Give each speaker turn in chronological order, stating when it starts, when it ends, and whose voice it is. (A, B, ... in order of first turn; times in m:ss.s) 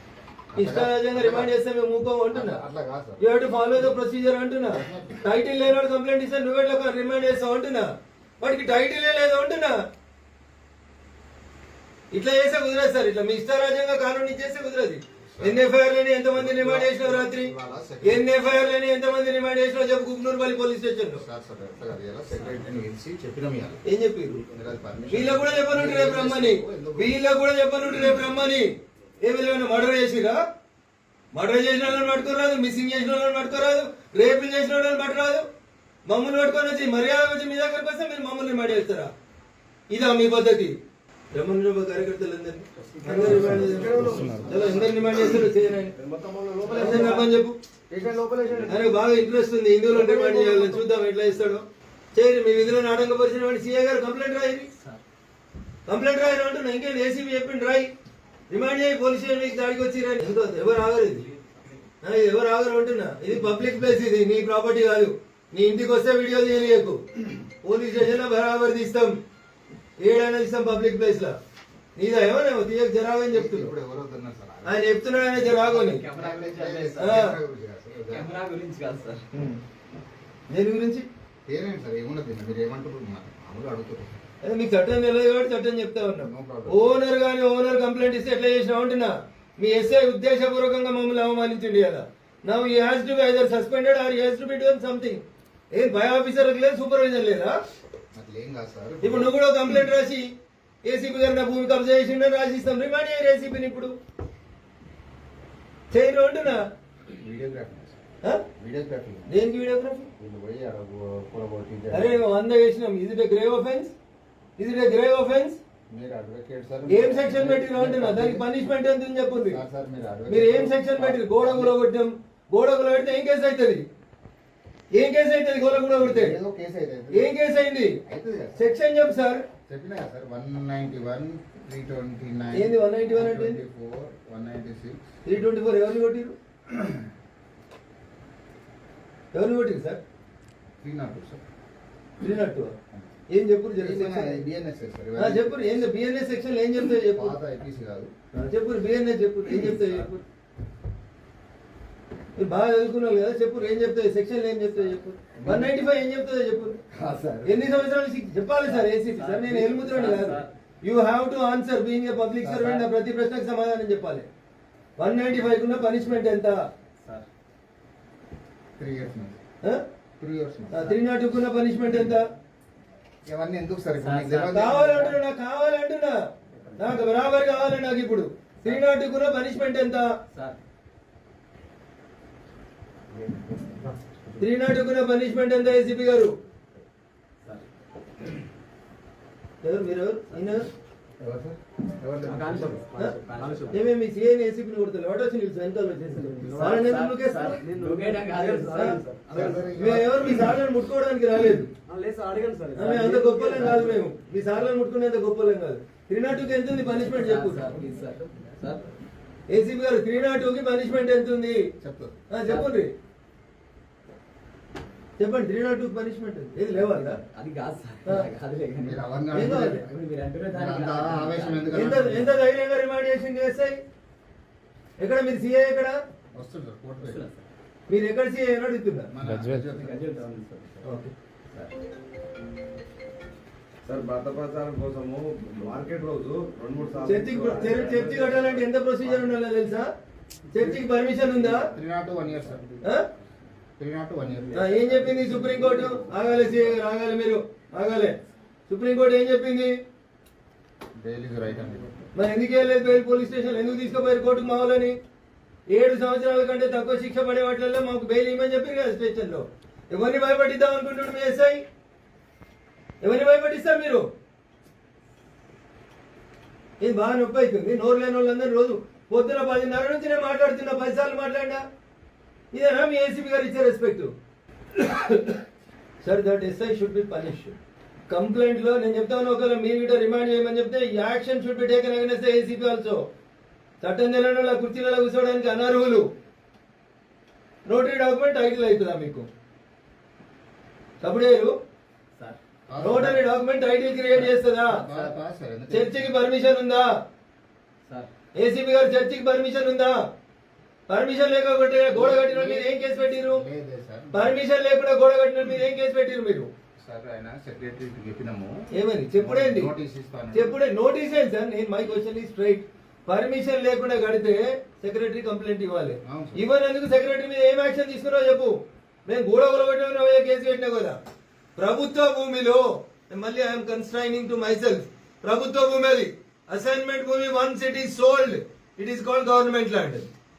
0:00.5-0:01.5 A
0:00.5-0:02.6 B
0:02.3-0:03.3 A
0:03.2-0:07.9 B
0:04.6-0:05.3 A
0:08.4-0:09.8 B
0:12.1-0:21.2 B
0:15.3-0:15.6 A
0:16.3-0:18.3 A
0:21.2-0:23.8 A
0:23.8-0:24.4 B
0:24.4-0:27.2 A
0:25.1-0:30.4 B
0:31.3-0:35.4 B
0:36.0-0:39.1 B
0:39.9-0:40.8 B
0:41.3-0:45.9 B
0:43.0-0:45.2 C
0:43.0-0:45.0 A
0:45.9-0:47.3 C
0:46.7-0:47.6 B
0:46.8-0:47.1 D
0:47.9-0:49.0 C
0:48.6-0:54.7 B
0:49.9-0:50.8 C
0:55.8-0:57.9 B
0:58.5-1:01.3 B
1:02.0-1:07.0 B
1:07.6-1:09.2 B
1:10.0-1:11.4 B
1:12.0-1:13.7 B
1:13.3-1:18.3 A
1:14.6-1:16.0 B
1:15.5-1:17.2 D
1:17.0-1:17.4 B
1:18.1-1:19.2 D
1:19.3-1:19.6 B
1:20.5-1:21.1 B
1:21.4-1:24.3 A
1:24.4-1:37.6 B
1:26.2-1:27.0 A
1:38.1-1:39.4 A
1:39.0-1:40.3 B
1:40.8-1:43.9 B
1:45.9-1:46.6 B
1:47.1-1:49.3 A
1:49.3-1:50.1 B
1:50.1-1:52.2 A
1:51.9-1:53.9 B
1:54.6-1:55.6 B
1:55.9-1:58.4 A
1:56.9-1:59.6 B
1:59.4-2:01.8 A
2:00.3-2:03.8 B
2:04.9-2:06.4 B
2:06.0-2:07.3 A
2:07.1-2:08.0 B
2:08.0-2:08.7 A
2:08.6-2:09.4 B
2:09.7-2:15.0 A
2:12.5-2:13.6 B
2:15.2-2:16.3 B
2:16.7-2:17.1 A
2:19.3-2:20.0 B
2:20.8-2:21.4 A
2:22.2-2:22.7 B
2:23.3-2:24.4 B
2:23.8-2:25.9 A
2:25.2-2:27.3 B
2:26.9-2:28.1 A
2:28.3-2:30.1 B
2:29.8-2:30.2 D
2:32.4-2:36.8 B
2:35.3-2:35.8 A
2:36.9-2:37.8 A
2:37.4-2:44.2 B
2:38.6-2:40.5 D
2:42.4-2:42.8 A
2:45.0-2:46.7 B
2:48.8-2:49.4 A
2:50.2-2:51.0 A
2:50.7-2:52.3 B
2:53.2-2:55.0 A
2:54.0-2:55.2 D
2:54.5-3:00.1 B
2:56.5-2:57.0 D
3:00.3-3:00.6 D
3:03.3-3:03.9 C
3:04.4-3:06.4 B
3:09.6-3:10.7 B
3:11.2-3:12.8 A
3:12.2-3:13.9 D
3:12.5-3:13.8 C
3:13.7-3:17.6 B
3:16.1-3:16.9 C
3:16.6-3:19.7 D
3:17.4-3:19.8 C
3:18.7-3:19.0 B
3:19.3-3:20.3 A
3:19.7-3:21.7 B
3:21.9-3:24.0 C
3:22.7-3:27.8 B
3:26.8-3:28.8 D
3:29.5-3:31.7 B
3:31.8-3:32.2 A
3:32.3-3:32.9 B
3:32.4-3:32.8 D
3:35.2-3:37.2 B
3:36.7-3:42.1 D
3:38.8-3:39.8 A
3:39.3-3:39.8 B
3:40.5-3:42.4 A
3:41.7-3:43.8 B
3:45.0-3:46.0 B
3:46.3-3:47.2 A
3:47.0-3:47.4 D
3:47.9-3:49.1 B
3:49.1-3:50.1 A
3:49.2-3:50.8 D
3:50.8-3:51.1 B
3:53.8-3:59.2 C
3:57.0-3:59.9 B
4:00.5-4:01.7 B
4:01.7-4:02.7 A
4:02.8-4:03.1 B
4:03.8-4:04.8 A
4:04.5-4:09.8 B
4:04.6-4:06.3 C
4:10.9-4:12.0 A
4:12.1-4:15.0 B
4:15.7-4:21.6 B
4:23.0-4:24.1 B
4:26.8-4:31.6 B
4:32.5-4:34.1 B
4:34.7-4:35.4 B
4:36.0-4:37.6 B
4:38.1-4:43.1 B
4:43.8-4:46.1 B
4:47.7-4:49.3 B
4:51.0-4:51.5 B
4:52.7-4:53.2 A
4:52.8-4:54.8 B
4:54.7-4:56.2 A
4:55.7-4:56.9 B
4:58.3-5:00.0 B
5:00.9-5:03.4 B
5:01.9-5:04.4 A
5:04.1-5:06.5 B
5:06.8-5:10.6 A
5:08.7-5:09.7 B
5:10.3-5:18.5 B
5:16.0-5:16.4 A
5:19.0-5:21.0 B
5:21.6-5:30.1 B